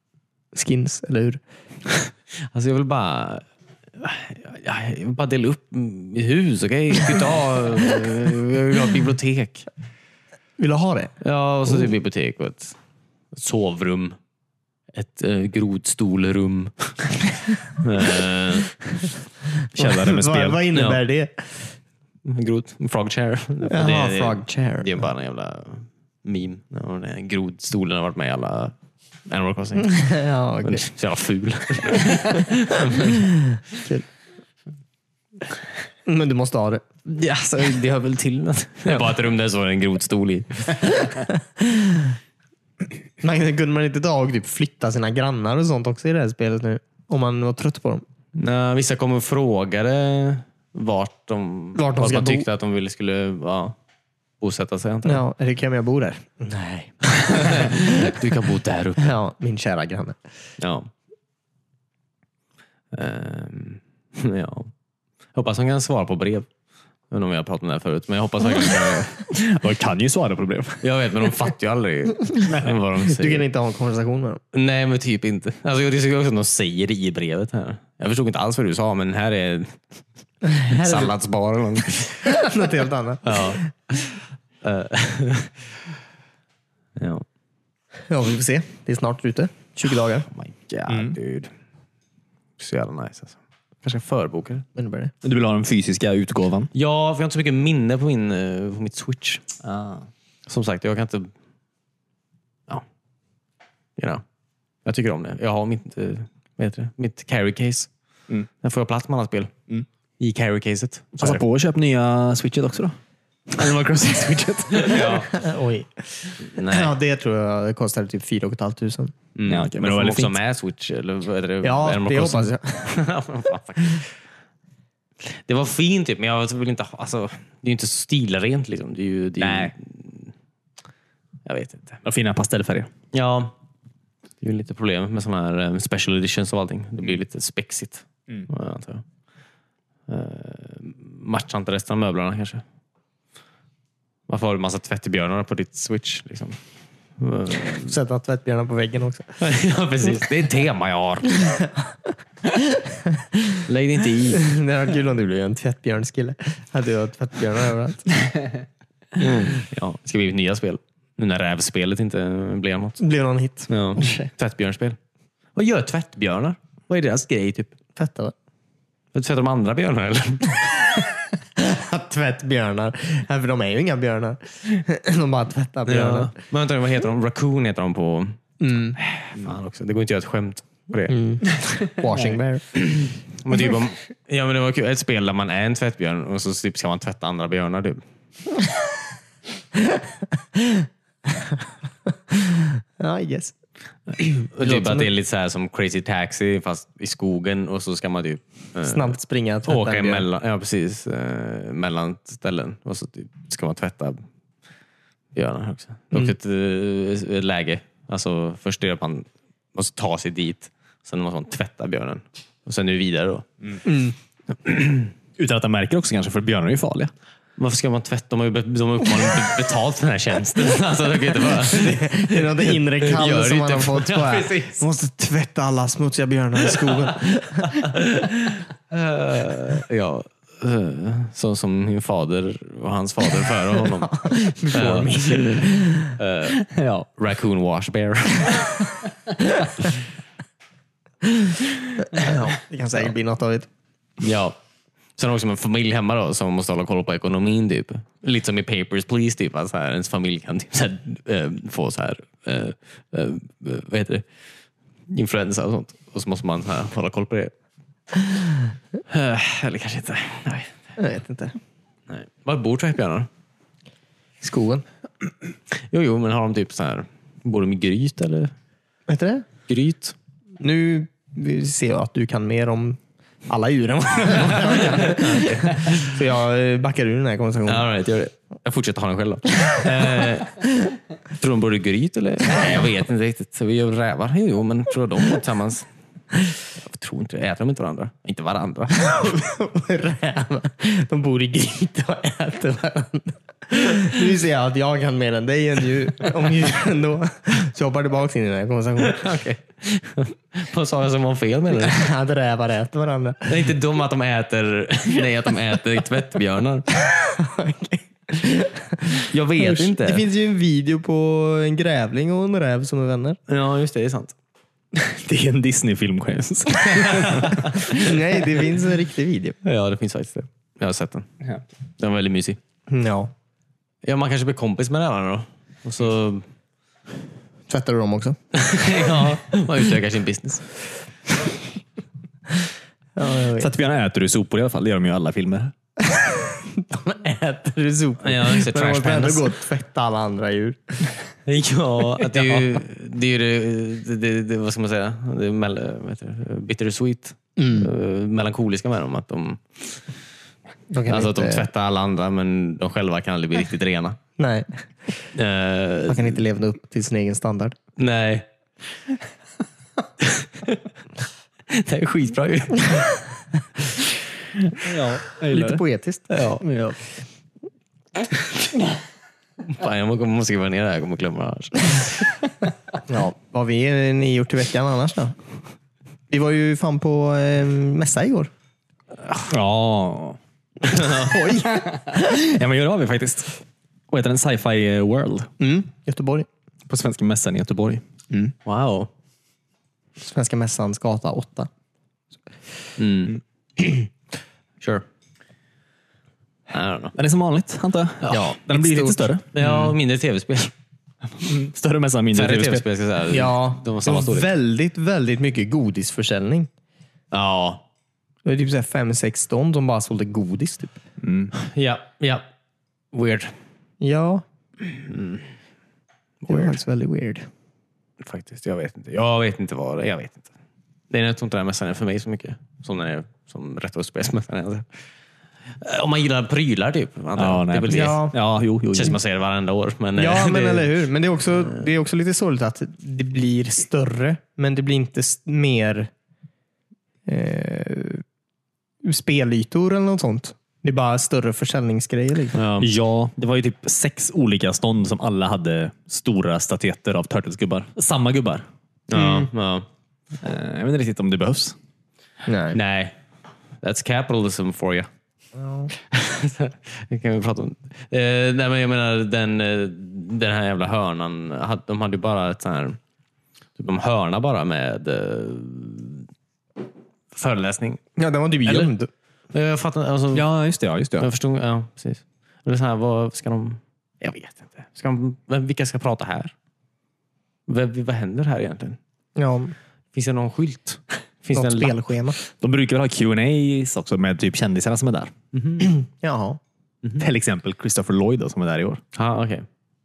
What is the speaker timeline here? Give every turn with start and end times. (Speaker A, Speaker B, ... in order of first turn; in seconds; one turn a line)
Speaker A: 0.5-1.4
Speaker B: 2.5-3.4
Speaker B: 4.0-9.7
Speaker A: 10.6-11.2
Speaker B: 11.2-12.7
Speaker B: 13.3-14.2
Speaker B: 14.9-18.7
Speaker C: 19.7-20.6
Speaker A: 19.8-21.7
Speaker B: 20.7-21.0
Speaker B: 22.2-28.7
Speaker A: 23.7-25.0
Speaker B: 29.2-33.2
Speaker A: 29.8-30.8
Speaker A: 33.1-34.0
Speaker A: 36.0-36.8
Speaker B: 37.0-41.0
Speaker A: 41.0-42.1
Speaker A: 43.2-48.0
Speaker B: 48.3-53.8
Speaker A: 51.7-52.5
Speaker B: 54.4-55.2
Speaker A: 55.0-58.2
Speaker B: 57.2-59.1
Speaker A: 59.0-60.2
Speaker B: 60.6-60.9
Speaker B: 62.9-64.7
Speaker B: 65.3-66.5
Speaker B: 67.1-69.3
Speaker C: 69.3-70.8
Speaker B: 70.8-73.5
Speaker A: 73.0-74.4
Speaker B: 74.5-80.0
Speaker A: 80.4-81.1
Speaker B: 80.6-82.4
Speaker A: 82.2-83.7
Speaker B: 83.2-85.6
Speaker B: 87.0-87.2
Speaker A: 88.1-90.3
Speaker B: 90.3-91.5
Speaker C: 90.9-91.2
Speaker B: 92.6-94.6
Speaker A: 94.7-95.1
Speaker C: 95.2-96.7
Speaker B: 96.7-99.4
Speaker C: 99.6-100.0
Speaker B: 100.5-101.3
Speaker B: 104.0-104.2
Speaker B: 104.8-107.9
Speaker B: 108.6-109.5
Speaker B: 110.2-111.4
Speaker C: 111.2-113.0
Speaker C: 113.5-115.2
Speaker B: 114.7-115.3
Speaker A: 115.0-119.1
Speaker B: 116.4-116.9
Speaker B: 119.3-124.1
Speaker C: 119.5-120.4
Speaker A: 121.6-123.0
Speaker B: 125.2-130.3
Speaker C: 129.4-129.7
Speaker B: 131.4-132.0
Speaker C: 132.0-132.9
Speaker B: 133.1-133.5
Speaker B: 134.4-139.0
Speaker B: 140.1-142.6
Speaker B: 144.3-146.6
Speaker B: 147.2-147.9
Speaker A: 147.8-149.3
Speaker B: 149.4-151.6
Speaker A: 152.4-153.6
Speaker B: 153.7-154.4
Speaker A: 154.3-158.3
Speaker B: 159.2-163.0
Speaker A: 163.0-164.3
Speaker B: 163.7-165.0
Speaker B: 165.5-167.7
Speaker A: 167.9-168.3
Speaker B: 169.1-170.9
Speaker A: 171.6-176.3
Speaker B: 175.9-178.4
Speaker A: 178.6-179.0
Speaker B: 179.0-181.2
Speaker A: 181.1-182.8
Speaker B: 182.7-188.0
Speaker A: 189.9-191.6
Speaker A: 192.3-193.5
Speaker A: 194.2-195.1
Speaker B: 194.3-204.2
Speaker A: 198.8-200.2
Speaker B: 205.3-213.4
Speaker A: 213.8-214.1
Speaker B: 214.6-215.1
Speaker C: 215.4-217.1
Speaker B: 217.6-224.8
Speaker A: 221.5-227.8
Speaker B: 227.7-236.6
Speaker A: 234.1-236.1
Speaker C: 236.5-237.1
Speaker B: 237.1-238.8
Speaker A: 241.4-243.7
Speaker B: 244.2-244.6
Speaker B: 245.2-254.2
Speaker B: 255.1-257.5
Speaker B: 259.1-260.7
Speaker A: 261.0-261.6
Speaker B: 262.1-263.3
Speaker A: 264.4-264.8
Speaker B: 265.9-268.5
Speaker A: 269.1-269.4
Speaker B: 269.7-270.1
Speaker A: 270.6-277.9
Speaker B: 274.4-276.1
Speaker B: 277.6-280.6
Speaker B: 281.4-285.9
Speaker B: 286.8-289.1
Speaker A: 289.0-299.3
Speaker B: 299.0-302.0
Speaker A: 301.8-303.7
Speaker B: 303.4-306.9
Speaker A: 307.0-313.4
Speaker B: 309.3-310.2
Speaker B: 313.5-314.3
Speaker C: 314.9-317.7
Speaker B: 316.9-318.1
Speaker A: 317.8-319.6
Speaker B: 319.6-321.3
Speaker B: 322.0-322.6
Speaker A: 322.9-323.3
Speaker B: 324.0-326.4
Speaker A: 327.7-328.4
Speaker B: 328.5-330.6
Speaker A: 333.1-333.7
Speaker C: 333.6-335.7
Speaker A: 336.0-341.1
Speaker B: 338.2-339.5
Speaker B: 341.4-350.0
Speaker A: 347.6-347.9
Speaker A: 350.9-351.7
Speaker B: 351.1-354.2
Speaker A: 354.4-354.8
Speaker B: 355.3-356.4
Speaker A: 356.1-357.8
Speaker B: 358.0-358.4
Speaker B: 360.2-360.8
Speaker B: 361.7-363.1
Speaker C: 364.8-365.8
Speaker A: 365.5-366.3
Speaker B: 366.3-366.6
Speaker C: 366.6-367.0
Speaker B: 369.6-372.3
Speaker A: 373.1-375.4
Speaker A: 376.3-378.5
Speaker C: 379.4-380.4
Speaker B: 380.8-381.4
Speaker A: 381.0-382.5
Speaker C: 381.6-385.5
Speaker A: 385.6-386.5
Speaker C: 386.9-388.0
Speaker B: 388.6-389.1
Speaker A: 390.2-391.7
Speaker B: 393.0-393.4
Speaker B: 396.7-397.1
Speaker C: 397.1-399.9
Speaker B: 398.2-398.6
Speaker A: 398.3-399.3
Speaker B: 399.5-400.7
Speaker C: 401.4-402.8
Speaker B: 402.3-404.5
Speaker A: 403.3-406.7
Speaker B: 407.3-407.8
Speaker A: 408.4-411.0
Speaker C: 411.2-411.5
Speaker B: 411.5-412.4
Speaker B: 413.1-413.5
Speaker A: 414.0-414.4
Speaker B: 414.8-415.5
Speaker B: 416.4-416.8
Speaker A: 416.5-417.5
Speaker B: 418.2-420.5
Speaker B: 421.1-424.9
Speaker B: 425.8-428.2
Speaker C: 427.4-429.2
Speaker A: 427.9-428.4
Speaker B: 428.9-431.0
Speaker A: 430.2-436.1
Speaker A: 437.2-438.2
Speaker A: 439.0-442.6
Speaker B: 442.5-442.9
Speaker C: 442.8-449.5
Speaker B: 449.1-449.9
Speaker C: 450.4-451.8
Speaker A: 452.4-452.8
Speaker B: 452.7-453.1
Speaker B: 453.8-455.1
Speaker A: 455.6-455.9
Speaker B: 455.9-463.0
Speaker B: 463.8-466.3
Speaker B: 467.3-468.0
Speaker A: 468.2-469.1
Speaker B: 469.5-470.5
Speaker C: 470.3-471.3
Speaker B: 471.2-476.5
Speaker B: 477.7-479.0
Speaker A: 479.4-479.7
Speaker B: 480.1-482.0
Speaker A: 481.5-482.4
Speaker C: 482.5-485.3
Speaker B: 485.5-485.9
Speaker A: 485.8-486.6
Speaker C: 487.2-489.0
Speaker B: 489.1-489.6